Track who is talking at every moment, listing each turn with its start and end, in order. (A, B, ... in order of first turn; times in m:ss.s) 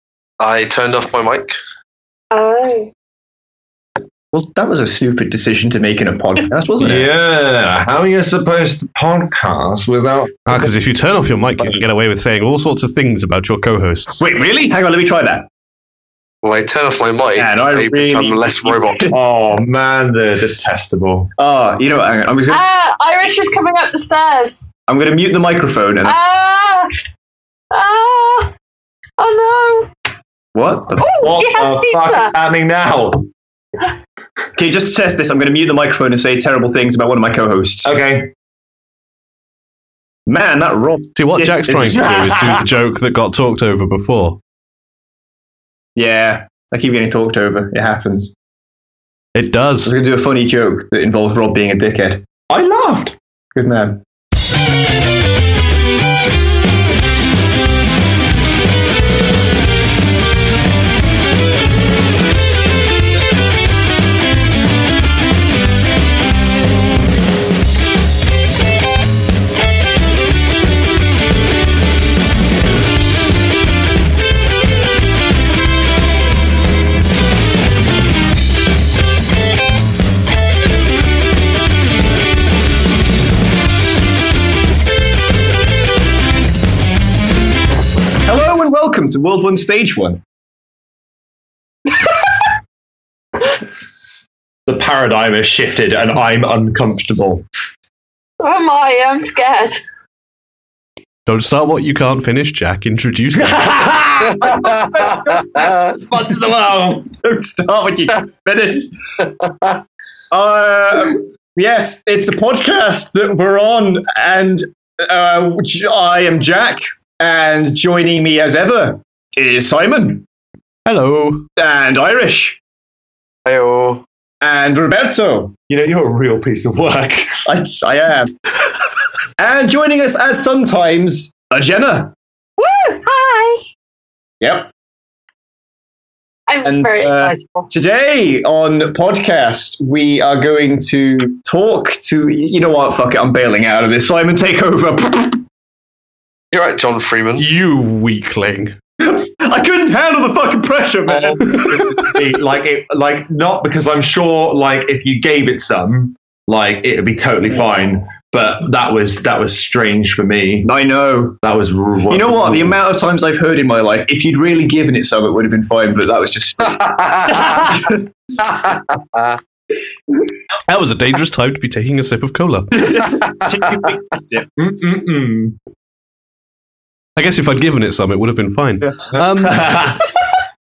0:00.4-0:01.6 A
0:02.3-0:02.9 B
0:04.3-0:07.1 C
0:06.8-0:10.6 D
0:10.5-0:14.2 E
0:14.2-0:15.5 C
0:16.4-0:19.1 A
0:17.4-0:19.2 C
0:19.1-0:21.3 D
0:21.4-0:22.6 C
0:22.5-0:24.6 B
0:24.9-0:26.2 C
0:26.0-0:26.9 B
0:27.7-0:28.5 B
0:29.2-0:29.9 B
0:30.5-0:31.1 C
0:31.0-0:32.3 B
0:31.2-0:33.3 D
0:34.6-0:37.9 C
0:37.8-0:38.3 D
0:40.2-0:42.6 C
0:41.2-0:44.4 E
0:46.0-0:48.3 C
0:49.3-0:49.9 E
0:49.8-0:52.2 C
0:52.5-0:53.2 D
0:53.5-0:54.0 C
1:28.2-1:30.2 C
1:34.7-1:37.4 D
1:38.4-1:39.8 B
1:41.2-1:44.0 E
1:43.6-1:44.4 D
1:44.4-1:48.9 C
1:50.3-2:00.2 C
2:00.8-2:01.5 E
2:01.6-2:02.6 C
2:03.4-2:04.0 A
2:04.4-2:05.5 C
2:05.7-2:07.4 D
2:07.4-2:08.3 C
2:09.4-2:12.1 C
2:12.6-2:13.6 B
2:14.4-2:14.7 C
2:16.5-2:17.7 B
2:16.6-2:25.4 C
2:26.5-2:27.4 A
2:27.4-2:28.7 E
2:29.0-2:31.9 C
2:31.1-2:40.7 D
2:40.6-2:41.4 C
2:41.4-2:42.8 D
2:42.1-2:48.0 C
2:48.5-2:49.4 A
2:50.7-2:53.2 E
2:52.8-2:54.5 C
2:54.6-2:55.6 D
2:57.2-3:00.0 E
2:59.1-3:00.0 D